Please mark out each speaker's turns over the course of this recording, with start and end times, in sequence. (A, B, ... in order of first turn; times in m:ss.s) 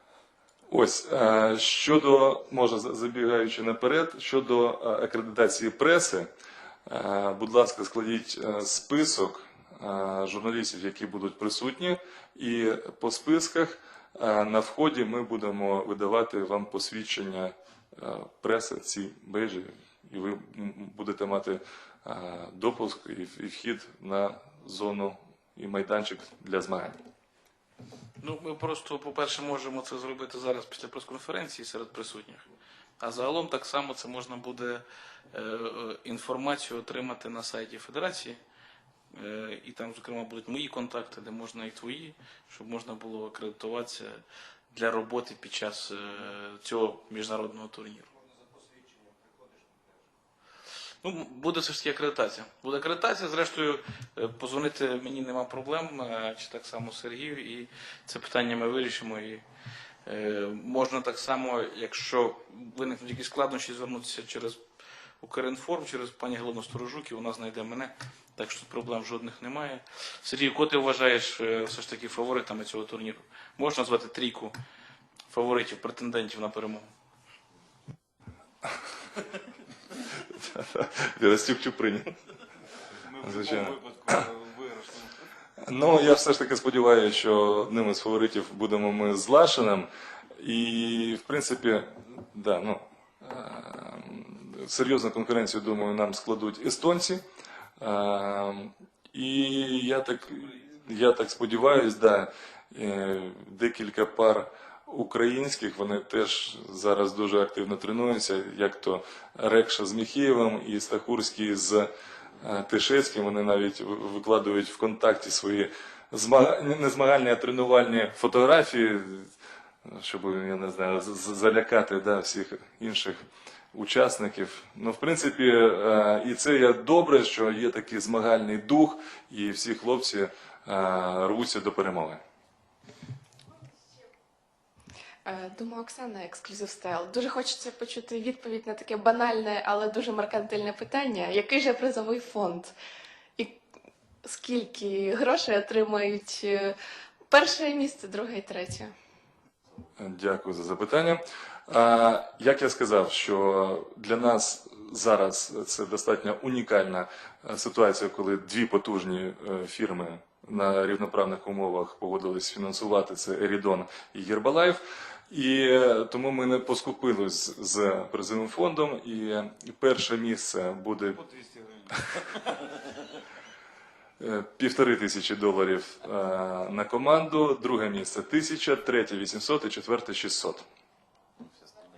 0:00.7-0:06.3 A
0:06.9-0:27.0 A
0:28.2-0:32.4 B
0:33.0-0:38.4 B
0:39.1-0:48.1 B
0:48.6-0:49.6 C
0:51.0-0:59.4 B
1:00.0-1:04.6 B
1:05.2-1:14.5 B
1:15.3-1:16.9 B
1:20.4-1:22.1 A
1:23.0-1:25.2 C
1:23.2-1:24.1 A
1:25.6-1:37.2 A
1:37.8-1:51.9 A
1:52.4-1:59.3 A
1:59.8-2:03.2 A
2:03.7-2:12.2 A
2:15.2-2:22.7 D
2:24.2-2:26.7 D
2:27.3-2:28.9 D
2:30.0-2:51.2 A
2:51.1-2:52.2 C
2:54.2-3:00.6 A